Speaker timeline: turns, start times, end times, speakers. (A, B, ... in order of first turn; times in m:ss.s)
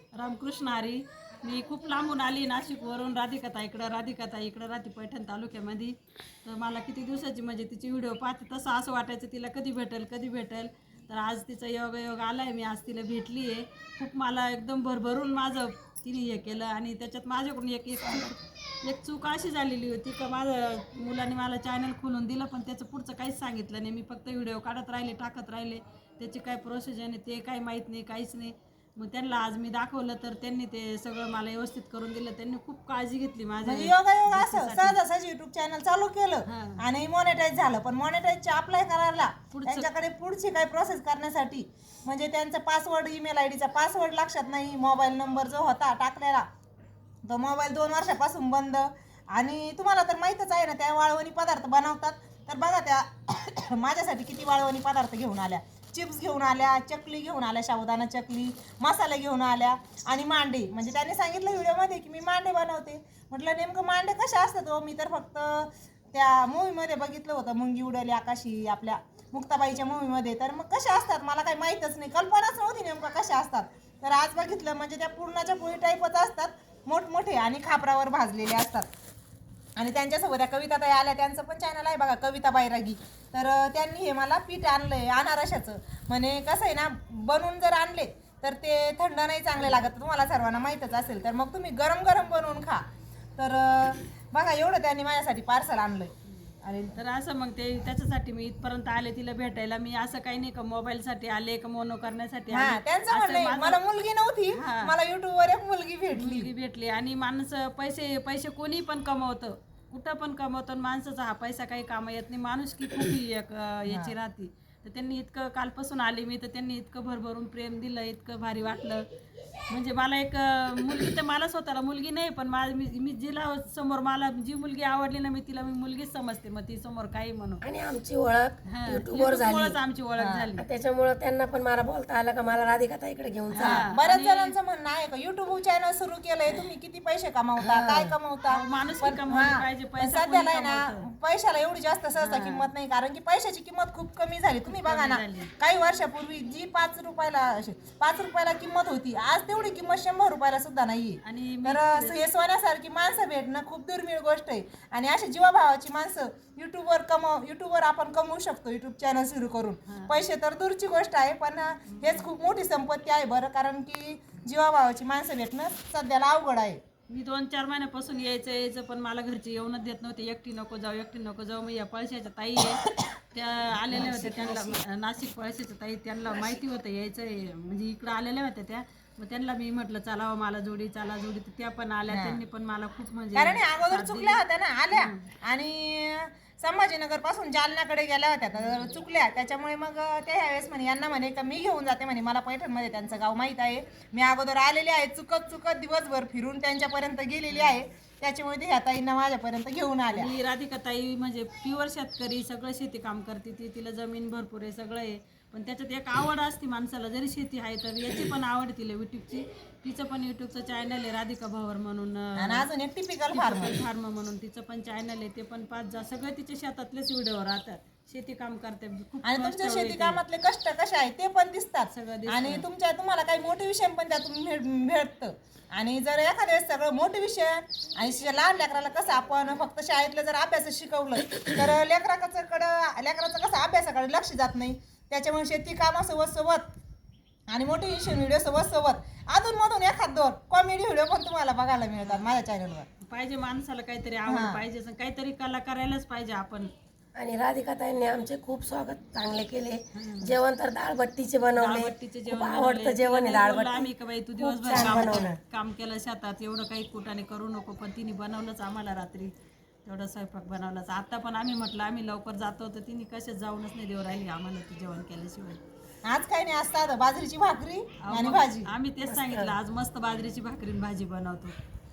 0:00.2-0:35.0 A
0:33.6-0:46.4 B
0:36.4-0:36.8 A
0:39.5-0:39.9 A
0:47.2-1:18.9 B
1:19.8-1:32.8 B
1:29.6-1:29.8 A
1:33.4-1:36.1 B
1:36.6-1:37.0 B
1:36.9-1:43.8 A
1:42.5-1:46.5 B
1:44.5-1:44.9 A
1:46.1-1:59.0 A
1:53.9-1:54.1 B
1:59.7-2:07.6 A
2:07.6-2:09.8 C
2:08.7-2:10.6 A
2:10.2-2:10.5 B
2:10.6-2:13.8 C
2:13.5-2:14.6 A
2:13.6-2:46.8 B
2:17.6-2:18.1 C
2:18.5-2:21.1 A
2:22.2-2:22.6 A
2:24.7-2:25.5 A
2:31.2-2:32.2 A
2:39.9-2:40.2 A
2:41.9-2:42.3 A
2:47.1-3:04.4 A
2:53.9-2:54.8 C
3:02.1-3:02.4 B
3:03.3-3:20.3 B
3:04.9-3:05.2 A
3:17.5-3:17.8 A
3:20.1-3:32.6 A
3:32.4-3:33.8 B
3:33.3-3:40.2 A
3:39.2-3:56.6 B
3:41.9-3:42.6 A
3:57.5-4:02.8 B
4:03.0-4:06.7 A
4:04.3-4:04.6 B
4:07.2-4:15.4 C
4:09.9-4:10.4 A
4:11.5-4:19.3 A
4:19.8-4:25.6 A
4:26.0-4:28.7 B
4:28.0-4:31.5 A
4:29.0-4:29.5 C